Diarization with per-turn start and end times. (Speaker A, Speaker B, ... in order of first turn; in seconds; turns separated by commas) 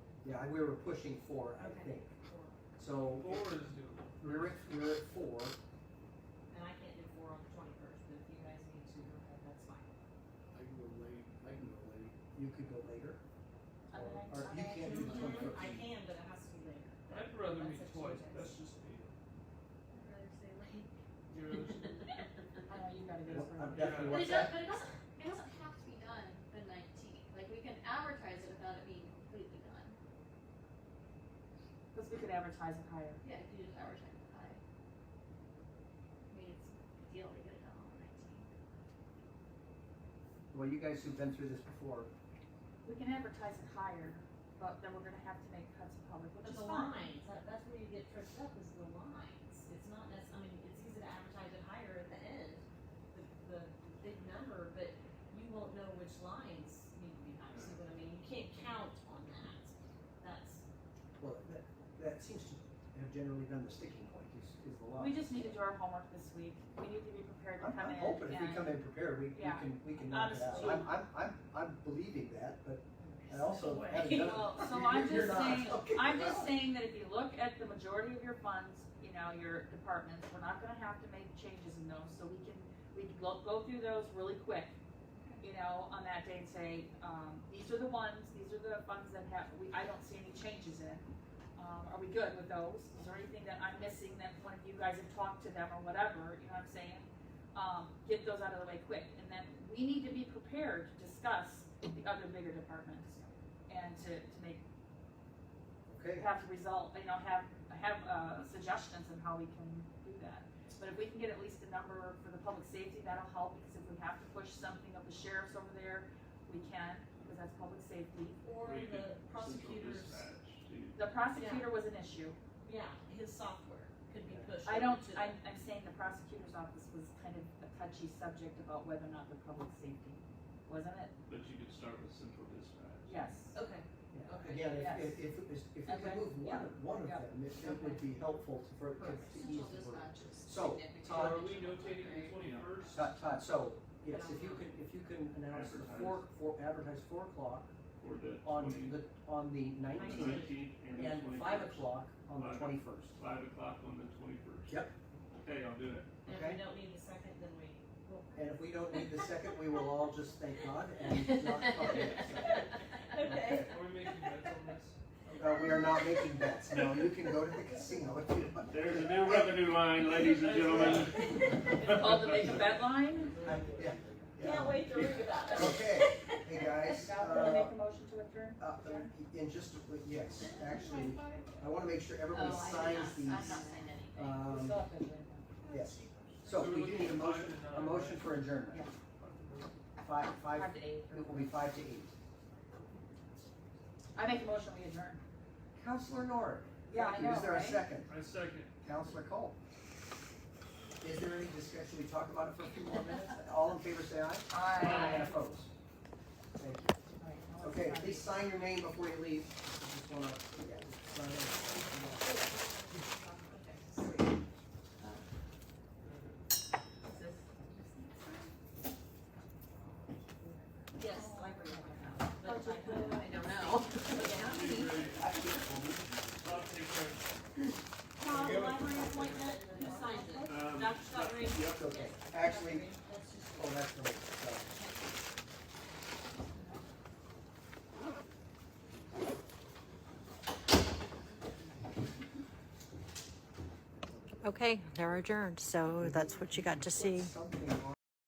Speaker A: 0.2-2.1, Speaker B: 1.6-2.6, Speaker A: 2.8-3.6, Speaker C: 3.2-4.6, Speaker A: 4.2-5.6, Speaker B: 6.5-9.9, Speaker D: 10.5-12.2, Speaker A: 12.3-13.2, Speaker C: 13.9-15.1, Speaker A: 14.0-15.8, Speaker B: 14.8-18.6, Speaker D: 14.9-15.8, Speaker C: 17.1-18.8, Speaker E: 19.9-20.9, Speaker C: 21.3-24.3, Speaker A: 23.3-24.6, Speaker E: 24.0-30.0, Speaker C: 31.9-33.2, Speaker E: 33.2-34.6, Speaker E: 36.3-38.5, Speaker A: 40.5-42.1, Speaker C: 42.8-47.1, Speaker B: 46.4-60.6, Speaker F: 57.5-57.8, Speaker A: 61.2-65.5, Speaker C: 64.9-71.0, Speaker A: 67.6-76.5, Speaker B: 73.2-74.6, Speaker C: 74.2-84.8, Speaker B: 85.1-85.4, Speaker C: 85.4-103.2, Speaker C: 103.7-104.6, Speaker A: 105.9-106.3, Speaker C: 106.2-118.5, Speaker B: 118.4-120.3, Speaker F: 118.6-121.0, Speaker C: 121.0-122.4, Speaker B: 121.3-121.7, Speaker B: 122.6-125.4, Speaker C: 124.6-131.1, Speaker F: 131.3-133.2, Speaker C: 133.1-133.6, Speaker B: 133.5-134.8, Speaker A: 134.1-141.5, Speaker C: 134.7-135.3, Speaker C: 135.8-138.0, Speaker B: 138.9-139.8, Speaker E: 139.3-142.9, Speaker F: 141.1-143.1, Speaker A: 142.9-147.7, Speaker B: 144.1-144.7, Speaker F: 145.5-146.3, Speaker F: 148.0-149.1, Speaker A: 148.4-153.1, Speaker B: 149.9-150.6, Speaker F: 150.0-156.2, Speaker A: 154.7-154.9, Speaker B: 156.2-159.3, Speaker A: 156.3-156.7, Speaker A: 158.3-163.8, Speaker E: 161.4-162.7, Speaker B: 161.6-164.4, Speaker C: 163.7-166.1, Speaker A: 165.4-169.8, Speaker F: 168.5-172.7, Speaker C: 170.5-173.4, Speaker A: 170.5-171.2, Speaker D: 172.4-174.9, Speaker A: 173.4-177.8, Speaker B: 174.4-176.4, Speaker C: 176.9-179.1, Speaker A: 178.6-184.8, Speaker E: 180.6-181.3, Speaker E: 182.3-184.5, Speaker B: 183.3-183.9, Speaker C: 184.5-185.6, Speaker A: 185.7-188.8, Speaker C: 186.4-189.4, Speaker A: 190.0-192.1, Speaker C: 190.5-191.8, Speaker C: 194.2-195.2, Speaker A: 195.8-198.1, Speaker C: 196.9-198.1, Speaker F: 198.1-198.7, Speaker A: 198.8-199.6, Speaker A: 201.0-205.7, Speaker C: 204.5-205.3, Speaker A: 206.6-207.0, Speaker C: 207.1-208.4, Speaker A: 207.6-213.0, Speaker E: 212.2-213.8, Speaker C: 216.0-216.4, Speaker E: 217.1-218.5, Speaker B: 220.9-224.7, Speaker C: 221.0-224.5, Speaker E: 223.1-225.6, Speaker F: 224.3-226.7, Speaker A: 225.2-225.8, Speaker D: 225.7-226.8, Speaker C: 226.4-227.2, Speaker C: 228.2-231.5, Speaker B: 228.2-233.9, Speaker E: 229.6-230.5, Speaker F: 230.5-231.8, Speaker A: 231.5-232.9, Speaker A: 233.6-234.7, Speaker G: 244.4-247.3, Speaker A: 245.9-247.9